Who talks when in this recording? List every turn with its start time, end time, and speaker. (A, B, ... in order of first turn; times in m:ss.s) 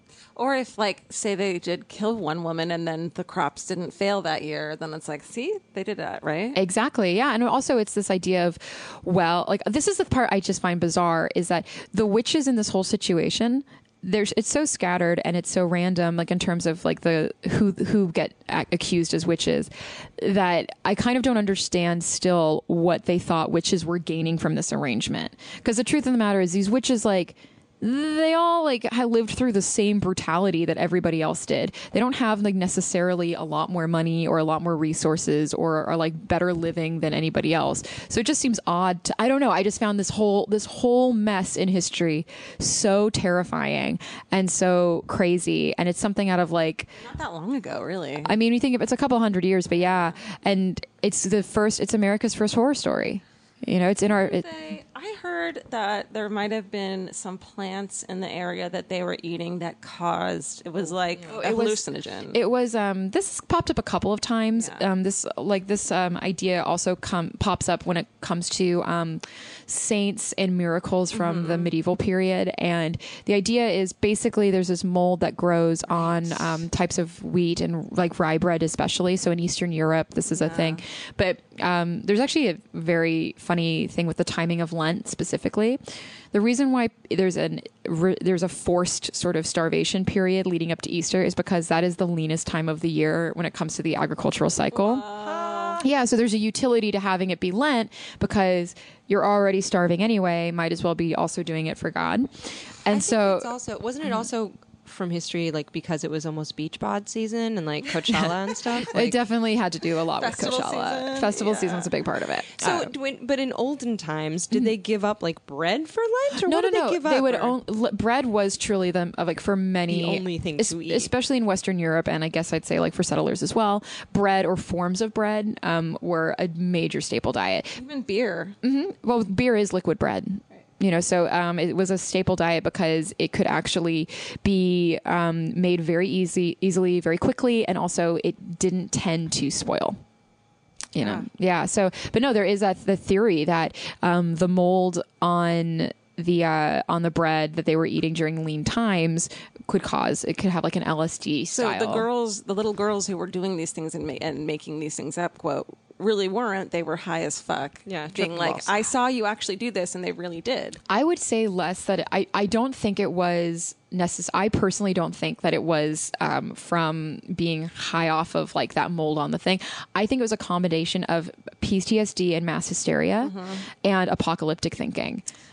0:00.4-0:06.6 A
0:06.6-0:46.9 B
0:47.0-0:48.3 A
0:48.2-0:54.5 B
0:54.1-1:02.4 A
1:01.3-1:25.8 B
1:11.1-1:11.7 A
1:15.9-1:16.4 A
1:20.3-1:20.8 A
1:26.3-1:35.1 B
1:34.7-1:35.8 A
1:35.2-1:35.8 C
1:35.8-1:43.5 B
1:42.9-1:49.2 C
1:48.9-1:52.9 B
1:50.2-1:51.9 A
1:52.6-1:57.6 C
1:56.4-2:07.8 B
1:59.9-2:01.1 C
2:07.8-2:08.6 A
2:08.6-2:20.0 B
2:21.0-2:32.1 B
2:31.5-2:40.8 A
2:37.9-2:38.7 C
2:40.9-2:55.2 B
2:53.2-2:53.6 A